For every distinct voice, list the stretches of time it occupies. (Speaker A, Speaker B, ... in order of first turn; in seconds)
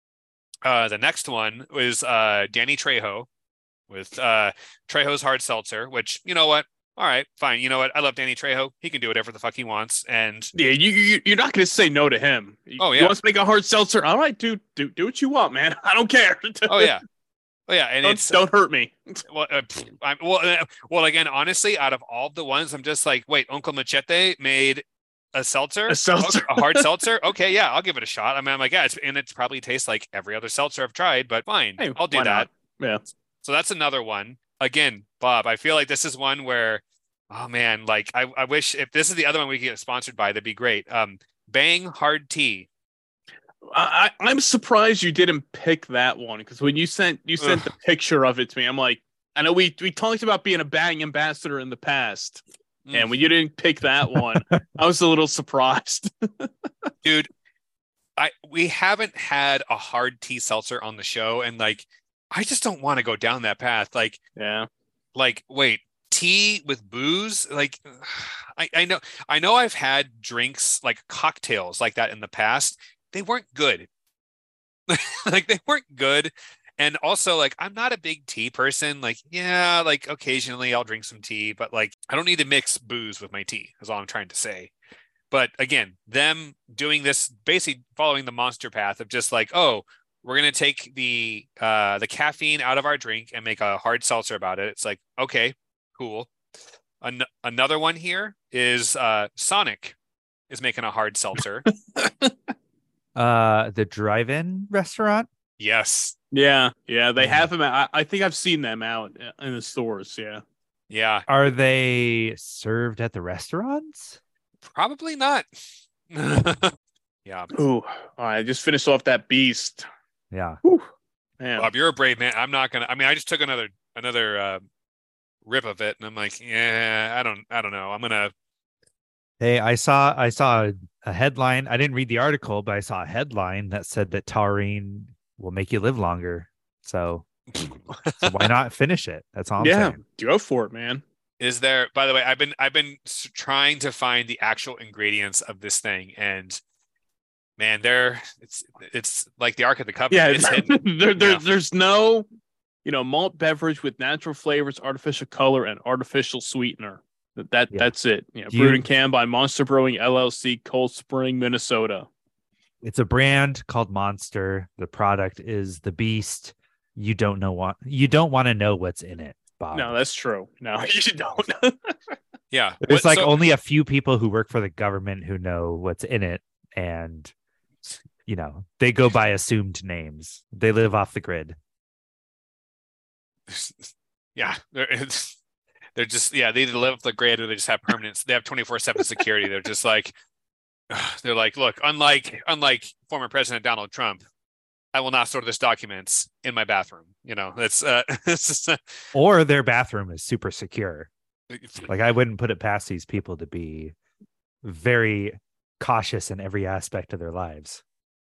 Speaker A: 0.6-3.3, 3.9-10.5, 12.8-13.2, 16.7-17.0, 17.7-18.4, 19.3-32.5, 33.4-42.7, 52.9-53.1, 57.0-57.3, 58.2-64.2, 65.1-73.9, 74.9-84.7, 85.3-96.3, 97.0-99.9, 100.5-101.7, 105.6-106.2, 110.9-111.2, 114.7-115.5, 116.1-117.5, 121.6-124.6, 125.5-128.3, 137.5-138.5, 141.4-146.6, 147.6-151.4, 172.5-173.4, 183.5-185.3, 185.9-190.1, 190.9-194.2, 194.9-199.0, 201.5-201.9
Speaker B: 10.5-16.9, 18.0-19.2, 25.9-26.9, 31.8-33.0, 43.7-52.4, 52.9-56.5, 64.3-64.7, 101.9-102.3, 106.3-110.4, 117.5-119.9, 120.6-121.7, 139.6-141.0, 150.1-152.3, 152.8-162.1, 169.7-171.9
Speaker C: 54.1-54.6, 103.1-105.3, 107.2-107.5, 111.3-114.2, 120.3-120.6, 129.4-137.3, 138.2-140.0, 158.5-158.8, 162.8-169.9, 172.8-177.3, 178.2-181.6, 199.1-201.1, 201.9-203.9, 204.6-207.8